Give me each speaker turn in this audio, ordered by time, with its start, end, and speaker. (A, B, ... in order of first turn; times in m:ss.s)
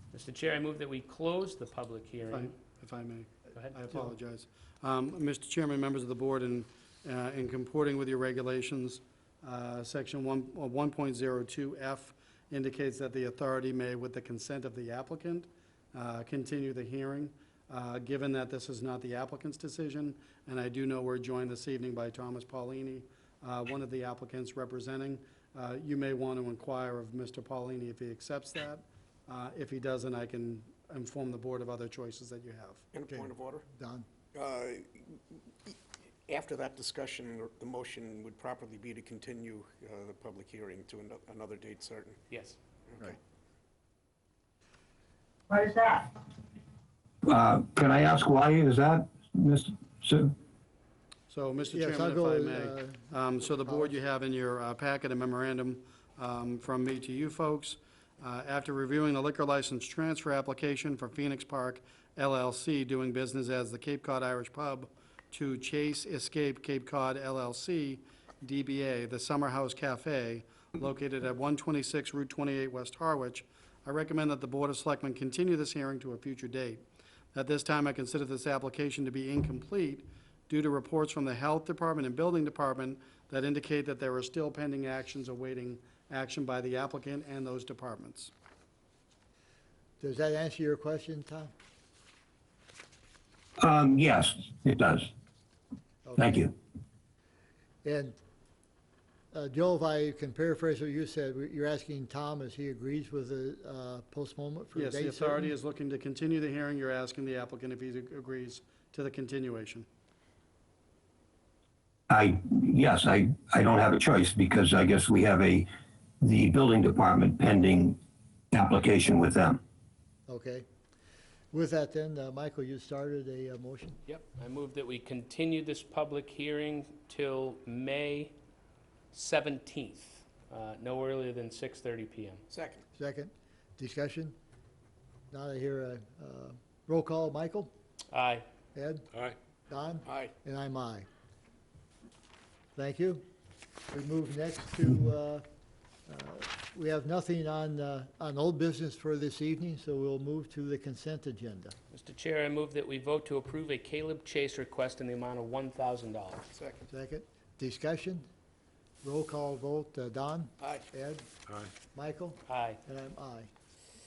0:00.1-0:02.5 A
0:02.3-0:32.8 B
0:03.5-0:04.1 A
0:32.9-0:33.7 C
0:33.1-0:34.1 D
0:34.3-0:35.8 C
0:36.3-0:42.2 C
0:42.3-0:42.6 A
0:45.5-0:46.0 E
0:47.2-0:50.4 E
0:51.3-1:16.8 B
0:51.7-0:54.0 D
1:17.3-1:28.3 B
1:30.0-1:31.5 D
1:33.6-1:35.1 E
1:36.0-1:36.4 D
1:36.2-1:36.5 E
1:37.8-1:38.2 D
1:39.3-1:45.5 D
1:44.7-1:49.9 B
1:52.1-1:55.7 E
1:56.2-1:58.0 E
1:58.5-1:59.6 E
2:00.3-2:00.7 D
2:01.5-2:04.0 D
2:04.1-2:08.4 A
2:09.1-2:12.4 A
2:12.5-2:12.8 C
2:13.0-2:14.4 D
2:15.3-2:17.7 D
2:18.1-2:18.4 A
2:18.8-2:19.1 D
2:19.7-2:21.1 D
2:20.0-2:20.3 C
2:22.8-2:23.2 D
2:23.9-2:25.4 D
2:26.1-2:31.8 D
2:31.9-2:36.5 A
2:36.5-2:36.9 C
2:36.9-2:38.3 D
2:39.0-2:41.3 D
2:40.6-2:40.8 C
2:41.9-2:43.5 D
2:42.5-2:42.8 A